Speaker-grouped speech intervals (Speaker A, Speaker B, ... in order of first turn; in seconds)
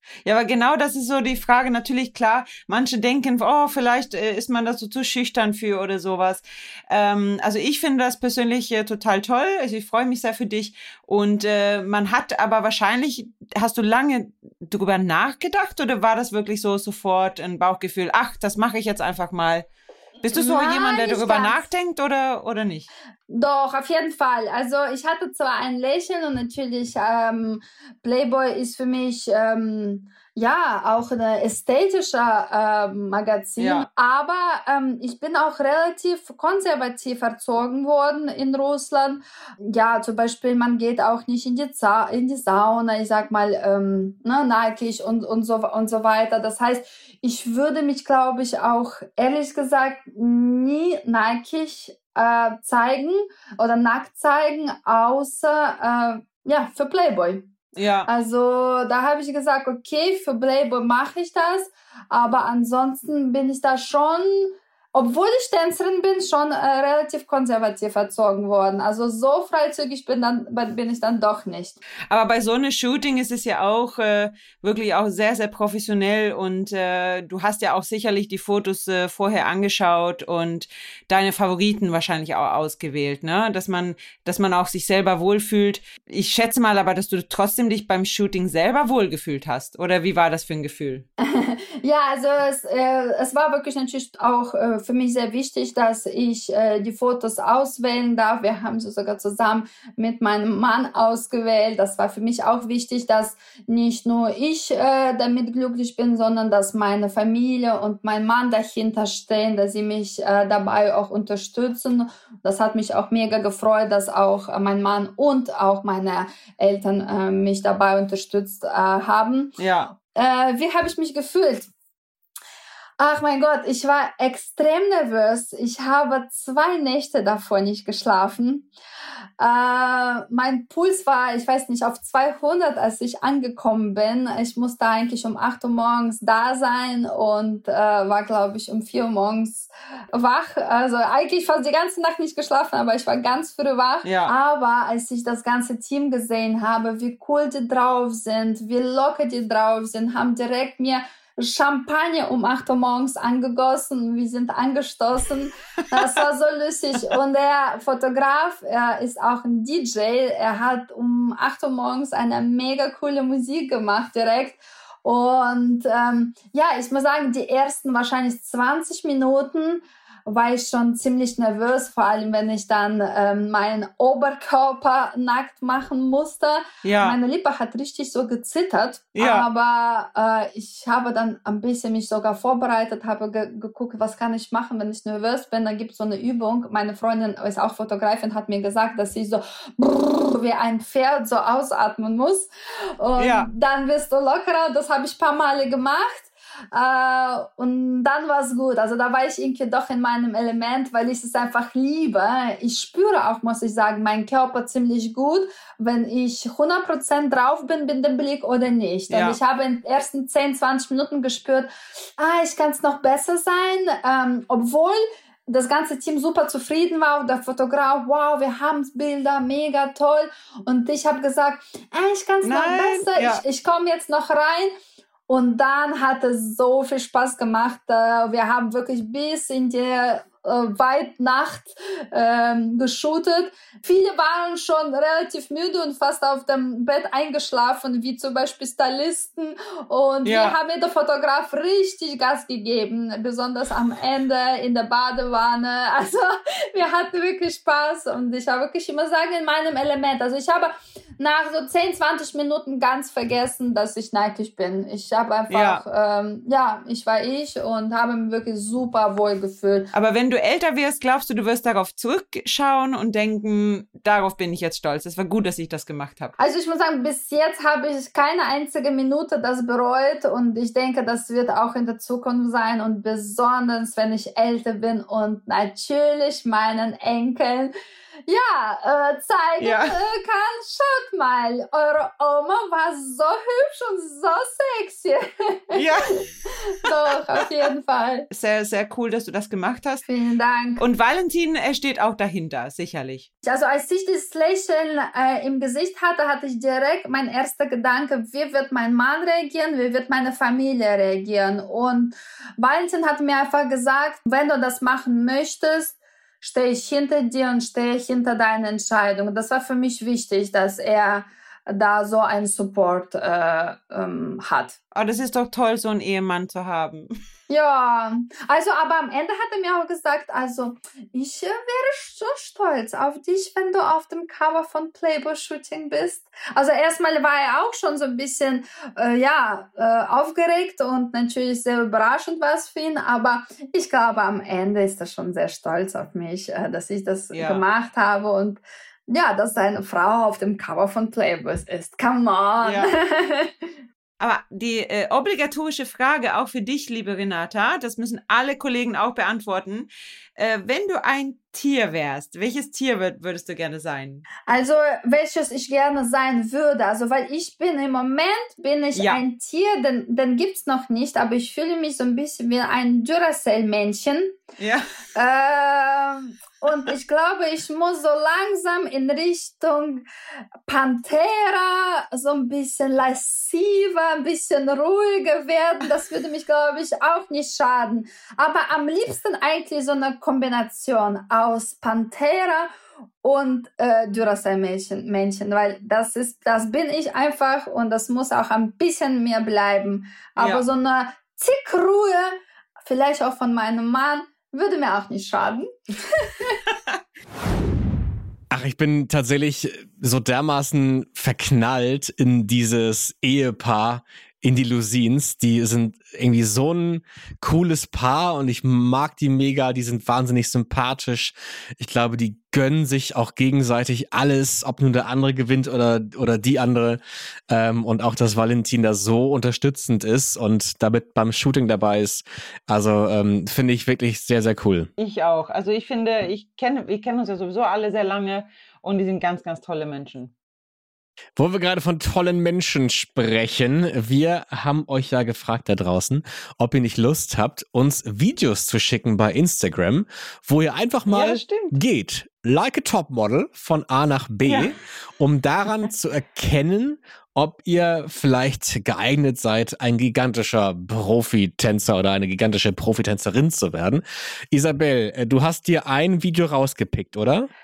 Speaker A: 0.2-19.7, 20.2-22.9, 33.6-33.9, 57.8-58.1, 72.1-91.0, 119.6-119.9, 144.0-144.3, 176.8-177.2, 179.1-179.4, 193.2-193.5, 209.1-209.4, 222.4-223.4, 240.2-240.6, 255.5-255.8, 259.9-266.3, 279.6-280.0, 285.7-286.2, 288.3-290.0, 290.8-293.3, 314.9-317.1, 337.3-337.6, 342.6-342.9, 344.2-354.2, 358.9-359.2, 364.6-364.9, 390.4-390.6, 425.0-430.3, 441.1-441.8
Speaker B: 20.3-21.7, 23.3-57.5, 58.1-71.8, 91.2-121.7, 123.0-128.7, 129.4-224.8, 225.3-259.9, 266.4-277.7, 278.3-288.3, 290.1-290.8, 293.4-314.8, 317.5-343.5, 354.5-364.4, 365.1-370.0, 370.7-382.7, 383.2-396.6
Speaker C: 398.5-424.9, 431.4-457.5